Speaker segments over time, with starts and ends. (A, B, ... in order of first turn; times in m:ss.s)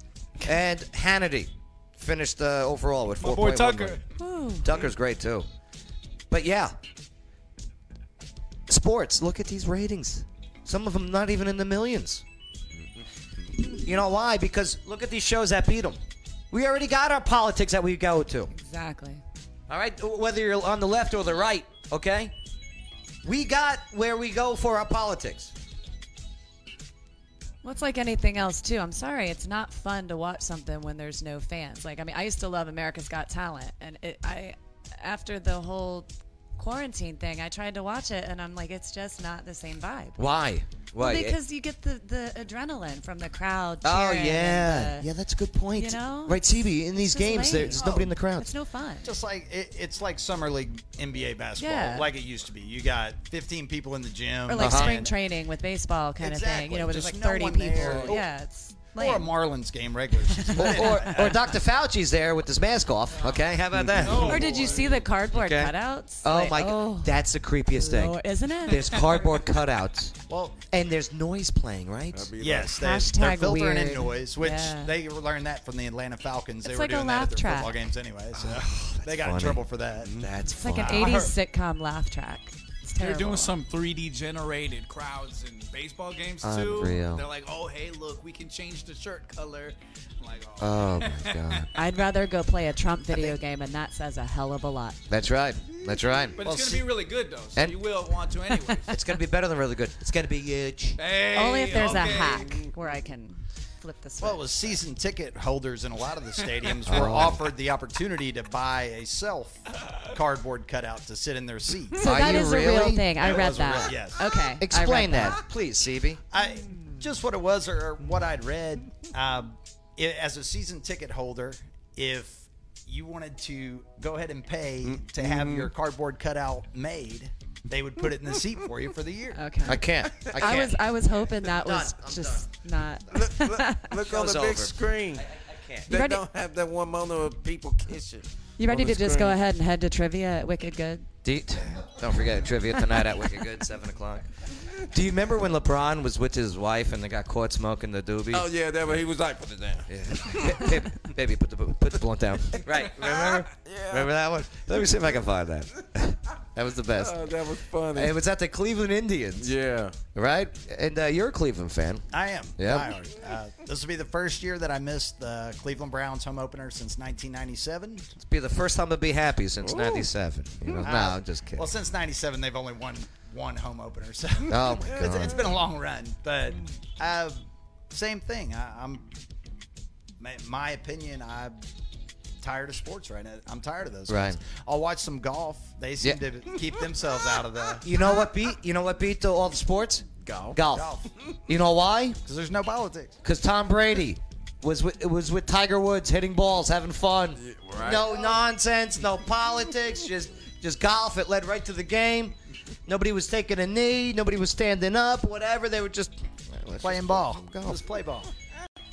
0:00.4-0:04.0 A
0:03.2-0:04.0 B
0:04.2-0:04.7 C
0:04.6-0:05.5 A
0:06.3-0:06.7 A
0:08.7-0:12.2 A
0:13.7-0:16.0 A
0:16.5-0:18.5 A
0:18.5-0:19.2 C
0:19.7-0:22.3 A
0:23.2-0:25.5 A
0:27.6-0:40.2 C
0:40.2-0:41.4 A
0:41.0-0:45.1 C
0:43.8-0:48.5 A
0:45.7-0:46.4 C
0:46.9-0:49.1 C
0:47.7-0:48.1 D
0:49.0-0:55.1 D
0:51.6-0:52.1 C
0:54.5-0:59.3 C
0:54.6-0:55.0 A
0:56.2-0:58.3 D
0:58.9-1:01.5 D
1:00.3-1:01.3 C
1:00.5-1:04.5 A
1:03.2-1:03.4 B
1:03.7-1:04.1 E
1:04.0-1:05.0 B
1:04.1-1:04.6 D
1:04.2-1:07.2 C
1:05.3-1:10.1 A
1:07.7-1:09.0 C
1:10.3-1:10.6 D
1:10.7-1:12.3 A
1:12.1-1:12.8 E
1:12.4-1:20.1 D
1:12.7-1:14.9 C
1:16.6-1:17.8 C
1:18.3-1:19.6 A
1:20.0-1:20.3 E
1:20.2-1:21.2 A
1:20.5-1:23.5 C
1:20.8-1:21.3 D
1:23.0-1:31.6 B
1:26.4-1:27.2 A
1:30.6-1:31.7 A
1:31.8-1:35.0 C
1:35.1-1:36.4 A
1:36.4-1:39.0 B
1:37.5-1:37.8 A
1:38.9-1:41.0 A
1:41.0-1:42.6 B
1:41.3-1:44.4 C
1:44.2-1:52.4 D
1:46.8-1:47.5 A
1:52.0-1:55.4 C
1:52.0-1:53.9 A
1:53.2-1:54.2 D
1:54.6-1:56.2 A
1:56.3-2:09.4 D
2:04.8-2:05.7 E
2:09.3-2:13.9 C
2:09.6-2:12.5 A
2:10.2-2:10.6 E
2:13.1-2:19.4 E
2:14.0-2:15.9 A
2:15.9-2:16.2 C
2:18.6-2:21.1 C
2:21.2-2:24.3 A
2:24.8-2:28.5 A
2:28.3-2:30.9 E
2:29.9-2:39.5 A
2:33.0-2:34.1 E
2:37.0-2:38.1 E
2:39.4-2:39.9 E
2:40.1-2:42.0 A
2:42.1-2:48.1 D
2:42.6-2:42.9 A
2:48.2-2:51.7 A
2:49.6-2:50.1 E
2:50.8-2:59.1 D
2:54.5-2:55.4 A
2:54.8-2:55.2 E
3:00.2-3:01.6 D
3:02.4-3:07.9 D
3:04.1-3:04.4 A
3:07.8-3:11.0 A
3:10.2-3:10.6 E
3:10.7-3:11.1 D
3:11.5-3:12.2 A
3:12.2-3:13.2 D
3:13.2-3:27.8 A
3:17.4-3:18.4 E
3:26.8-3:28.3 D